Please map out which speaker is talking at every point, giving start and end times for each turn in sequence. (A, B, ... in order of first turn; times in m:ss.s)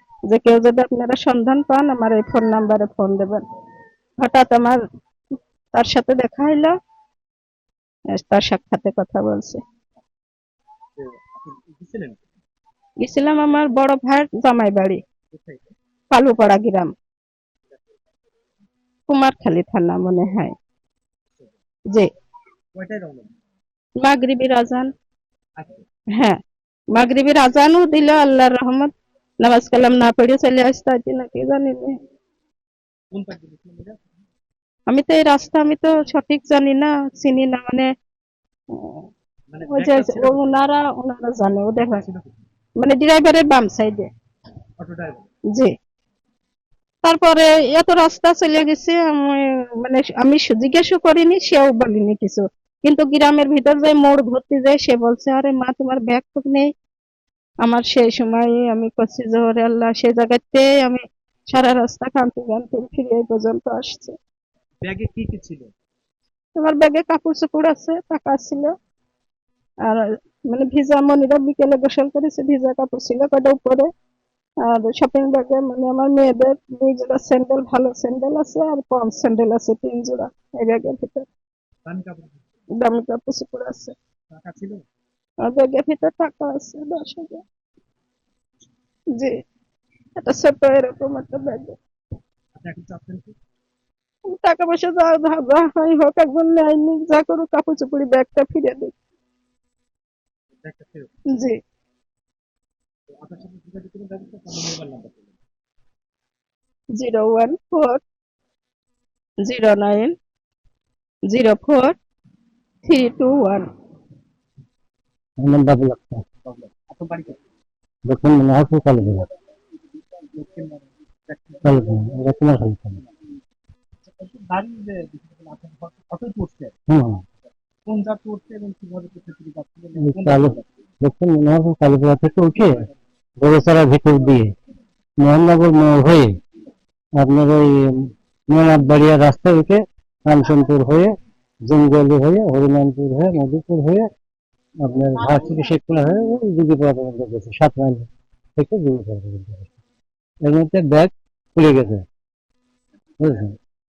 0:00.3-0:03.4 A
0:04.2-0:04.8 A
0:05.7-0:06.7 A
0:08.1-0:09.6 A
0:11.0-0:12.2 B
0:13.0-0:15.0 A
0:15.3-0:15.6 B
0:16.1-0:16.9 A
0:19.1-0:20.5 A
0:22.8-0:23.3 B
0:24.0-0:24.9 A
0:25.6-0:25.8 B
0:26.9-0:32.0 A
0:33.1-0:34.0 B
0:34.9-0:37.9 A
0:38.7-0:39.1 A
0:39.5-0:40.4 B
0:39.7-0:42.0 A
0:41.9-0:42.3 B
0:42.8-0:44.1 A
0:44.8-0:45.2 B
0:47.0-0:56.7 A
0:57.6-1:04.2 A
1:04.8-1:05.7 B
1:06.6-1:08.7 A
1:09.9-1:13.9 A
1:14.6-1:21.3 A
1:21.9-1:22.4 B
1:22.8-1:24.0 A
1:24.3-1:24.8 B
1:25.4-1:27.4 A
1:30.2-1:31.8 A
1:32.6-1:33.4 B
1:34.3-1:39.0 A
1:40.6-1:41.1 B
1:41.3-1:41.6 A
1:43.2-1:45.4 B
1:47.0-1:48.0 A
1:49.4-1:50.1 A
1:51.3-1:52.0 A
1:52.9-1:53.7 A
1:55.4-1:56.2 C
1:56.5-1:57.4 B
1:58.1-1:59.2 C
2:00.3-2:02.1 B
2:01.6-2:03.0 C
2:04.1-2:06.7 B
2:06.9-2:07.2 C
2:07.9-2:10.7 B
2:10.0-2:12.8 C
2:13.4-2:14.5 C
2:15.2-2:16.3 C
2:17.2-2:21.1 C
2:21.7-2:24.1 C
2:24.8-2:29.7 C
2:30.4-2:32.0 C
2:33.2-2:33.6 C